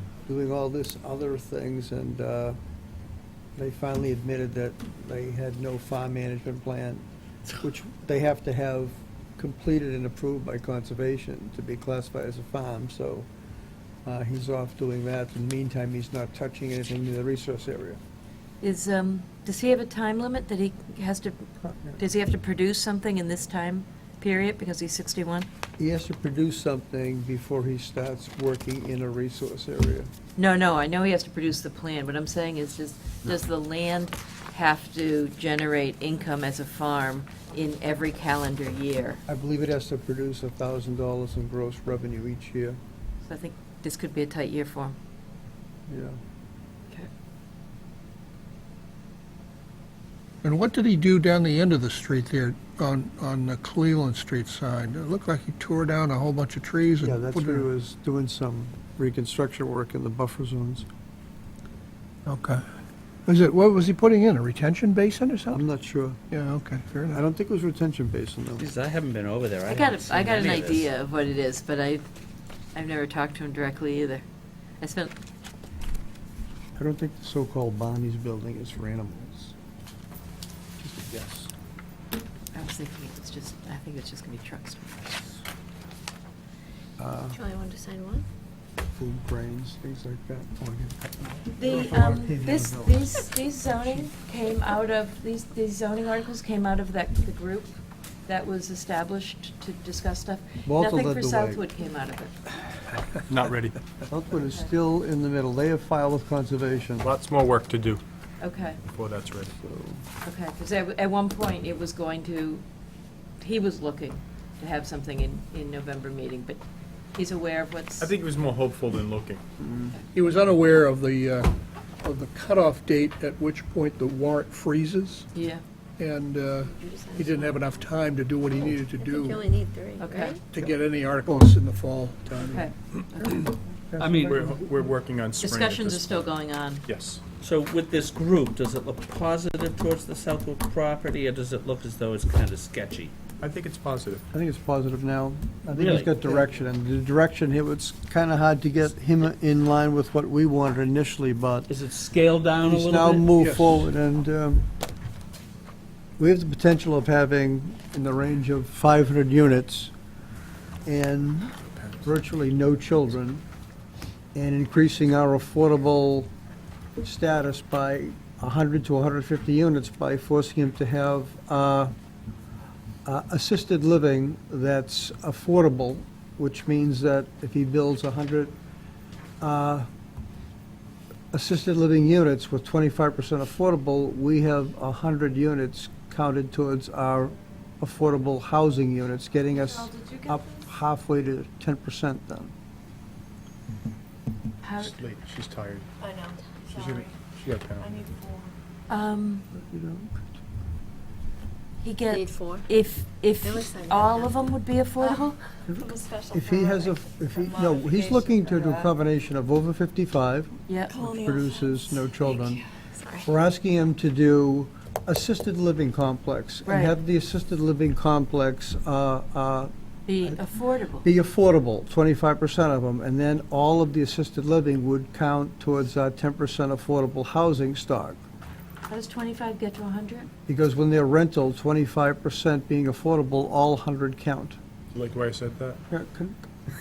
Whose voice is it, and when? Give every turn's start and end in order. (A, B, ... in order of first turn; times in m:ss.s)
0:00.2-0:02.6 A
0:03.6-0:07.0 A
0:07.6-0:13.3 A
0:14.0-0:18.0 A
0:18.6-0:25.5 B
0:21.6-0:22.0 A
0:25.8-0:30.1 A
0:30.4-0:39.2 B
0:39.3-0:42.8 A
0:43.2-0:44.9 B
0:45.9-0:46.2 A
0:50.4-0:57.7 C
0:57.0-1:00.8 A
1:02.2-1:02.6 C
1:03.2-1:05.6 C
1:05.5-1:06.2 A
1:06.3-1:07.2 C
1:07.1-1:08.7 A
1:08.6-1:10.9 D
1:09.6-1:12.0 B
1:12.7-1:14.2 B
1:14.8-1:15.1 B
1:16.8-1:19.5 A
1:20.8-1:21.5 A
1:22.5-1:25.4 B
1:27.0-1:27.4 A
1:27.3-1:28.2 E
1:28.9-1:34.1 A
1:31.6-1:37.7 B
1:38.3-1:42.3 B
1:40.6-1:41.6 A
1:43.3-1:43.8 F
1:44.1-1:47.1 A
1:47.0-1:48.0 F
1:48.4-1:48.8 B
1:48.9-1:49.5 F
1:49.5-1:50.0 A
1:50.2-1:52.6 B
1:53.4-1:56.6 B
1:57.1-1:58.1 B
1:58.0-1:59.4 F
1:59.6-1:59.9 A
2:00.1-2:05.3 C
2:05.3-2:05.6 B
2:06.0-2:09.4 C
2:06.6-2:07.9 E
2:09.0-2:10.4 E
2:10.0-2:10.4 B
2:10.5-2:12.7 C
2:12.4-2:13.6 B
2:13.9-2:14.6 A
2:14.0-2:14.4 D
2:14.3-2:16.3 F
2:15.4-2:16.8 B
2:16.8-2:17.2 F
2:17.4-2:23.1 D
2:23.4-2:24.2 F
2:24.3-2:31.7 A
2:25.7-2:26.4 D
2:31.7-2:33.3 D
2:32.6-2:34.7 A
2:33.4-2:33.8 C
2:36.2-2:39.9 A
2:40.8-2:43.4 A
2:41.7-2:42.0 F
2:44.3-2:46.3 A
2:47.0-2:51.9 A
2:53.0-2:58.5 A
2:59.4-2:59.9 A
3:01.3-3:12.5 A
3:09.5-3:10.6 B
3:14.6-3:15.0 B
3:14.8-3:15.9 F
3:16.0-3:17.2 E
3:16.6-3:18.1 F
3:17.7-3:18.5 E
3:18.9-3:19.4 B
3:19.5-3:20.3 A
3:21.8-3:25.4 B
3:22.1-3:22.6 E
3:23.4-3:28.7 E
3:25.7-3:32.6 A
3:30.7-3:30.9 B
3:30.9-3:33.3 E
3:33.2-3:39.7 A
3:36.6-3:36.9 B
3:40.1-3:41.1 B
3:41.0-3:48.2 A
3:48.9-3:50.3 B
3:50.5-3:54.6 A
3:54.9-3:55.8 F
3:55.9-3:56.4 A